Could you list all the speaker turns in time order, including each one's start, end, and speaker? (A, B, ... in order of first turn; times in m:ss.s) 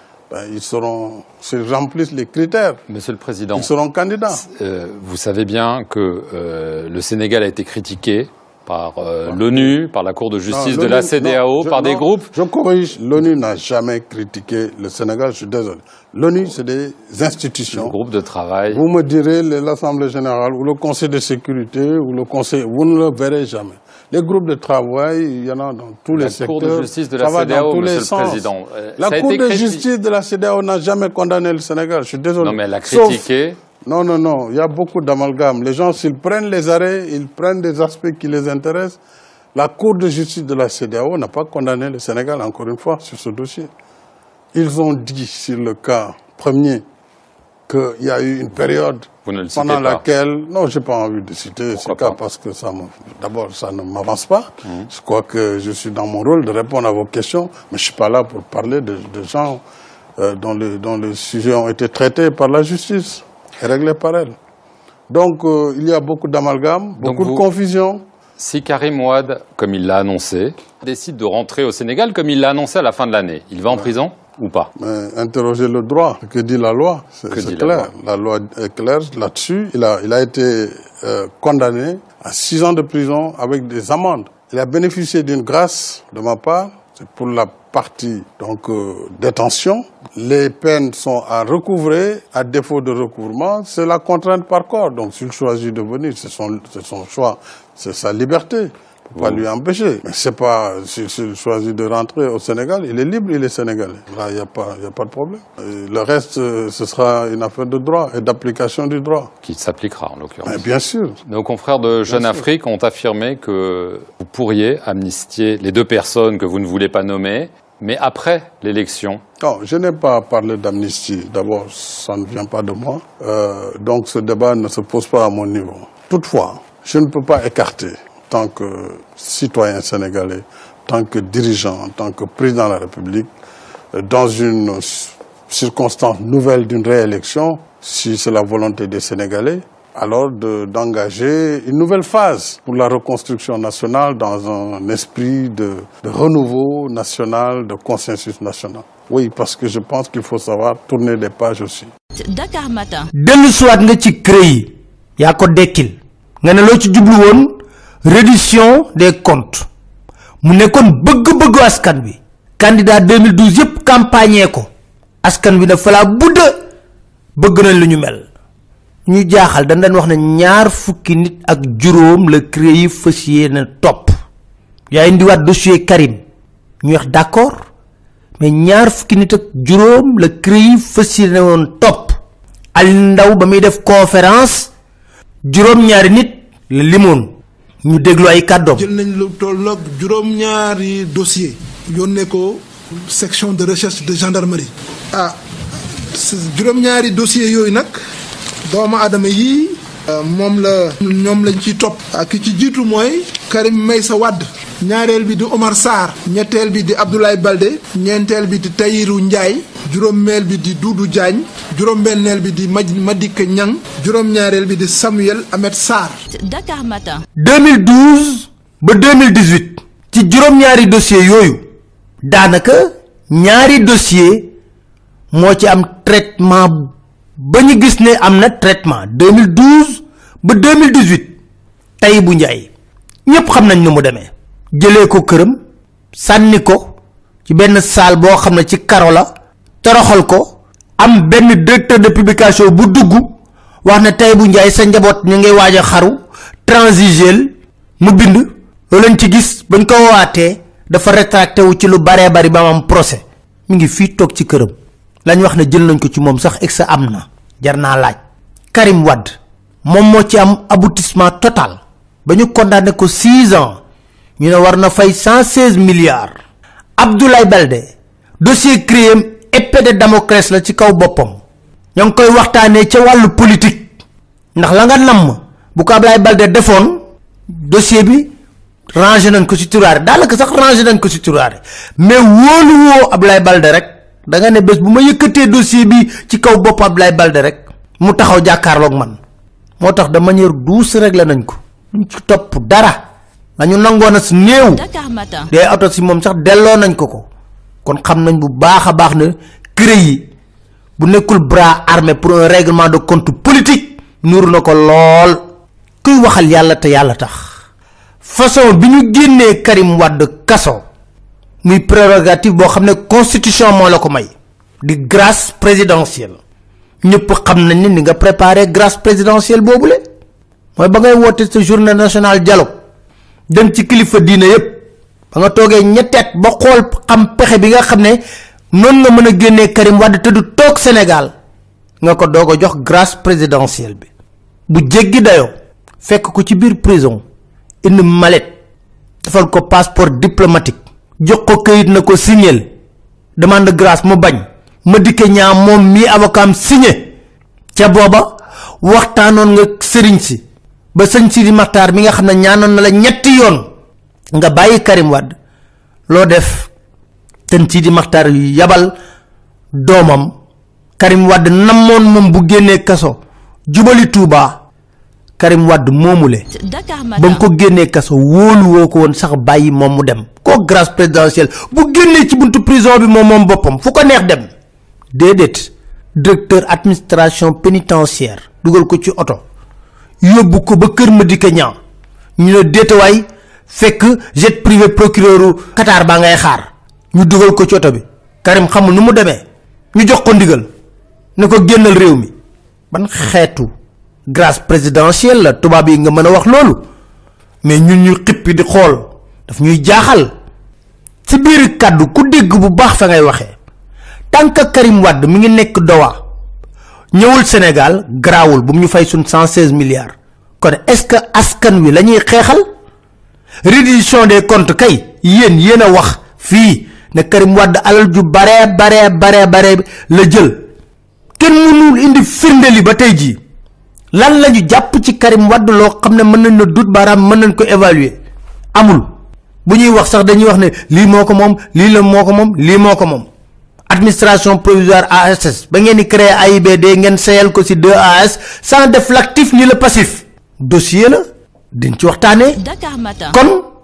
0:00.3-0:02.8 A
0:02.9-0:03.7 B
0:03.5-0:04.4 A
0:04.4-0:12.3 B
0:09.3-0:09.8 A
0:10.5-0:18.0 A
0:17.7-0:18.8 B
0:18.7-0:28.5 A
0:26.1-0:29.8 B
0:29.0-0:33.3 A
0:32.4-0:33.6 B
0:33.8-0:39.0 A
0:39.5-0:43.7 A
0:44.5-0:46.8 A
0:47.7-0:59.6 A
0:49.2-0:50.0 B
0:51.8-0:52.2 B
1:00.2-1:04.4 A
1:05.1-1:08.0 A
1:07.0-1:07.4 B
1:08.4-1:14.7 B
1:14.8-1:49.3 A
1:17.3-1:17.9 B
1:39.2-1:39.4 B
1:49.4-1:50.6 B
1:50.4-1:51.2 A
1:51.3-1:59.2 B
1:52.1-1:52.4 A
1:59.4-2:13.3 A
2:13.9-2:31.9 A
2:32.2-2:33.1 C
2:33.1-2:39.7 D
2:40.4-2:44.7 D
2:45.2-2:46.5 D
2:47.4-2:48.3 D
2:49.0-2:54.1 D
2:54.9-2:56.2 D
2:56.8-2:57.6 D
2:58.4-3:02.2 D
3:02.7-3:04.7 D
3:05.4-3:07.3 D
3:07.8-3:08.9 D
3:08.8-3:15.4 E
3:16.1-3:18.0 E
3:18.6-3:36.2 E
3:36.3-3:37.2 C
3:37.4-3:41.6 D
3:42.2-3:44.5 D
3:45.3-3:51.3 D
3:52.0-3:52.7 D
3:53.2-3:55.6 D
3:56.1-3:56.9 D
3:57.4-3:59.3 D
3:59.8-4:14.7 D
4:15.2-4:18.2 D
4:18.7-4:23.8 D
4:24.4-4:26.4 D
4:27.0-4:31.4 D
4:31.9-4:33.9 D
4:34.5-4:38.3 D
4:38.9-4:49.2 D
4:49.8-4:53.0 D
4:53.6-4:54.8 D
4:54.7-4:55.5 C
4:55.5-4:57.3 D
4:57.8-5:00.3 D
5:01.0-5:05.4 D
5:06.0-5:07.5 D
5:08.2-5:10.8 D
5:11.6-5:16.4 D
5:17.0-5:20.0 D
5:20.8-5:22.7 D
5:23.5-5:28.2 D
5:28.7-5:31.3 D
5:32.0-5:34.1 D
5:34.7-5:37.2 D
5:37.8-5:38.5 D
5:39.2-5:42.7 D
5:43.4-5:47.1 D
5:47.7-5:50.4 D
5:50.9-5:53.6 D
5:54.3-5:55.3 D
5:56.1-5:56.7 D
5:57.5-5:58.9 D
5:59.7-6:00.3 D
6:01.0-6:04.6 D
6:05.4-6:06.5 D
6:06.5-6:07.4 C
6:07.2-6:14.5 D
6:15.1-6:19.4 D
6:20.2-6:21.8 D
6:22.4-6:29.4 D
6:29.9-6:30.7 D
6:31.4-6:32.3 D
6:32.9-6:33.7 D
6:34.3-6:36.8 D
6:37.6-6:40.3 D
6:41.2-6:43.5 D
6:44.3-6:46.2 D
6:47.1-6:52.6 D
6:53.6-7:00.6 D
7:01.4-7:03.4 D
7:04.1-7:08.2 D
7:08.7-7:09.1 D
7:09.6-7:13.3 D
7:13.9-7:22.6 D
7:22.5-7:23.4 C
7:23.3-7:23.6 D